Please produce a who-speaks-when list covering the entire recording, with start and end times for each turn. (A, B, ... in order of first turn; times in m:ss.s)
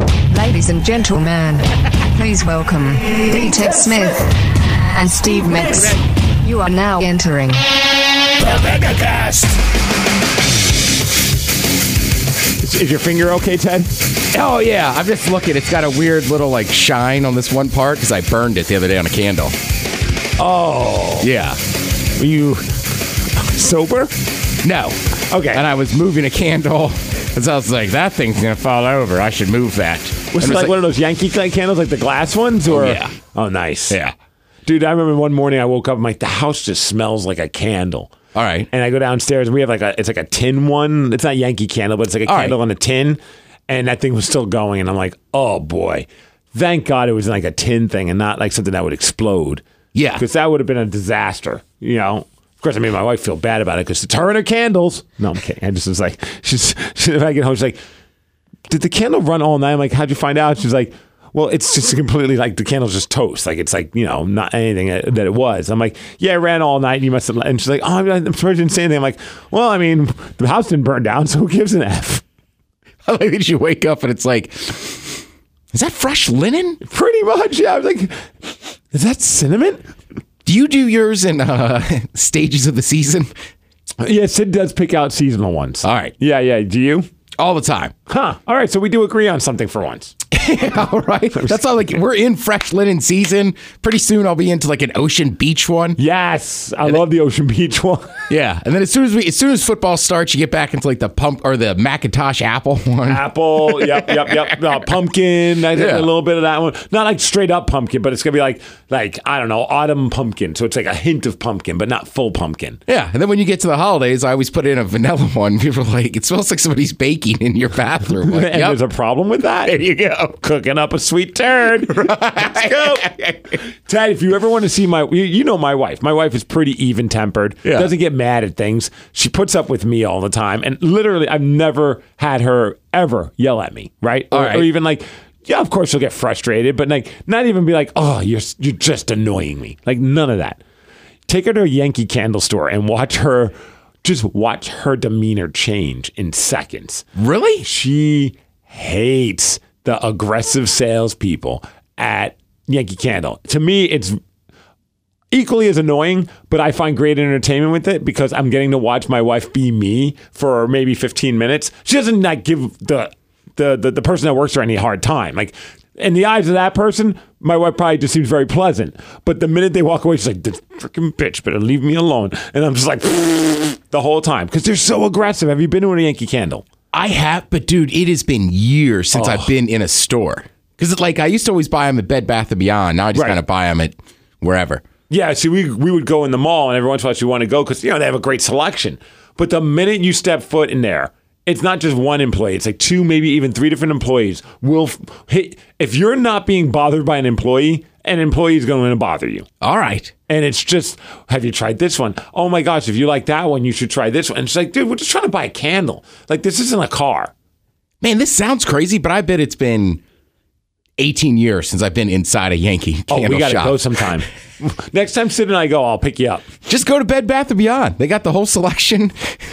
0:00.3-0:07.6 A
0:08.5-0:09.4 B
0:12.6-0:14.0 B
0:14.3-0:19.6 C
0:20.4-0:21.3 B
0:21.2-0:21.6 C
0:22.2-0:22.6 C
0:22.2-0:22.6 B
0:23.2-0:24.2 B
0:24.6-0:30.7 C
0:25.3-0:25.6 B
0:30.3-0:34.0 B
0:32.7-0:33.2 C
0:33.9-0:34.2 C
0:34.7-0:38.1 B
0:38.3-0:38.7 C
0:38.7-0:49.6 B
0:42.3-0:42.6 C
0:49.9-0:50.2 C
0:50.2-0:57.8 B
0:58.7-1:12.2 B
1:13.0-1:16.8 C
1:16.8-1:19.8 B
1:20.5-1:23.3 C
1:24.0-1:27.1 B
1:25.8-1:26.1 C
1:27.4-1:27.9 C
1:28.1-1:30.1 B
1:30.3-1:36.0 C
1:36.0-1:38.2 B
1:38.3-1:44.6 C
1:43.1-1:52.8 B
1:45.8-1:46.1 C
1:52.9-1:58.8 C
1:58.2-1:59.8 B
1:59.6-2:00.4 C
2:00.4-2:03.1 B
2:01.9-2:03.6 C
2:03.7-2:20.6 B
2:07.6-2:07.9 C
2:14.3-2:14.7 C
2:21.3-2:23.5 B
2:24.0-2:27.0 B
2:27.2-2:27.7 C
2:27.6-2:34.2 B
2:35.3-2:56.7 B
2:56.9-3:04.8 C
2:59.1-2:59.5 B
3:03.1-3:03.4 B
3:05.1-3:19.5 B
3:19.6-3:20.1 C
3:20.3-3:27.3 B
3:28.0-3:30.0 C
3:31.0-3:33.9 C
3:33.1-3:36.4 B
3:36.7-3:39.4 C